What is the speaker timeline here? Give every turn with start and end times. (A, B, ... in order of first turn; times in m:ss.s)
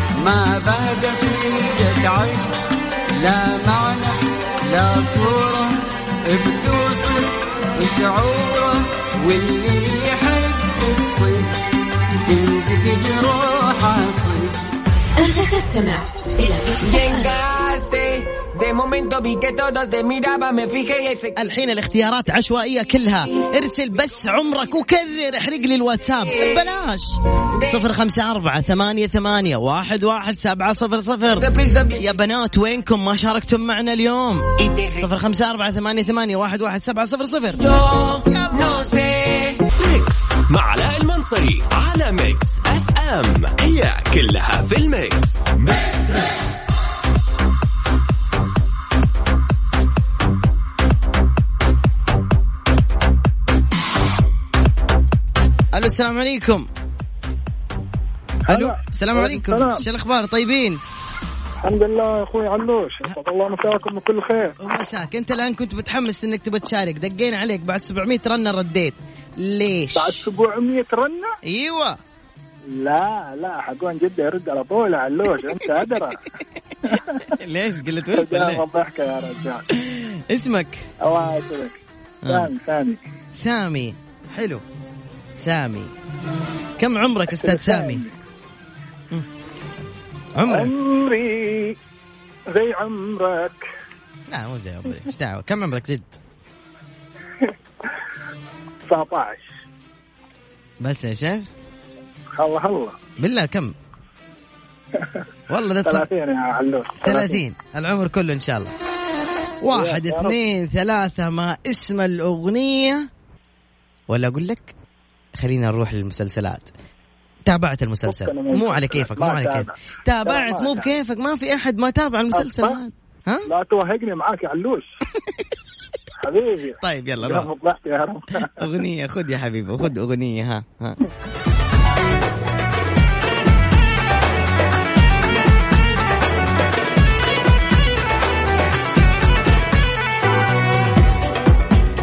0:00.2-0:02.5 A
0:03.2-0:11.5 A
0:12.2-0:14.5 A
0:15.2-0:17.2 B
0:16.8-0:21.5 C
0:21.4-0:37.6 D
0:26.3-0:26.6 C
0:27.6-0:27.8 C
0:31.3-0:32.1 C
0:34.6-0:35.1 C
0:37.6-0:39.6 C
0:38.3-0:38.8 D
0:39.8-0:46.1 E
0:55.7-0:56.7 D
0:58.5-0:59.8 F
0:58.5-1:00.8 D
1:01.6-1:04.6 F
1:04.6-1:10.2 D
1:10.0-1:11.3 F
1:11.4-1:12.0 D
1:12.8-1:16.2 F
1:16.8-1:17.3 F
1:17.4-1:18.6 D
1:18.1-1:19.6 F
1:19.7-1:20.8 D
1:21.0-1:23.0 F
1:22.2-1:22.5 D
1:23.3-1:24.6 D
1:25.3-1:25.9 D
1:26.8-1:28.0 D
1:27.4-1:28.1 F
1:30.3-1:30.7 D
1:30.4-1:31.7 F
1:32.5-1:33.6 F
1:34.3-1:36.1 D
1:38.9-1:39.5 F
1:40.8-1:41.4 D
1:42.4-1:43.0 F
1:43.2-1:43.7 D
1:44.9-1:45.2 F
1:45.5-1:46.1 D
1:45.8-1:47.4 F
1:47.0-1:48.7 D
1:49.6-1:53.1 D
1:49.7-1:50.3 F
1:54.1-1:54.7 D
1:55.4-1:56.7 D
1:57.5-2:03.5 D
1:58.0-1:59.7 F
2:00.2-2:00.9 F
2:02.3-2:02.8 F
2:03.5-2:04.8 F
2:06.2-2:08.6 F
2:06.8-2:07.5 D
2:08.6-2:11.0 D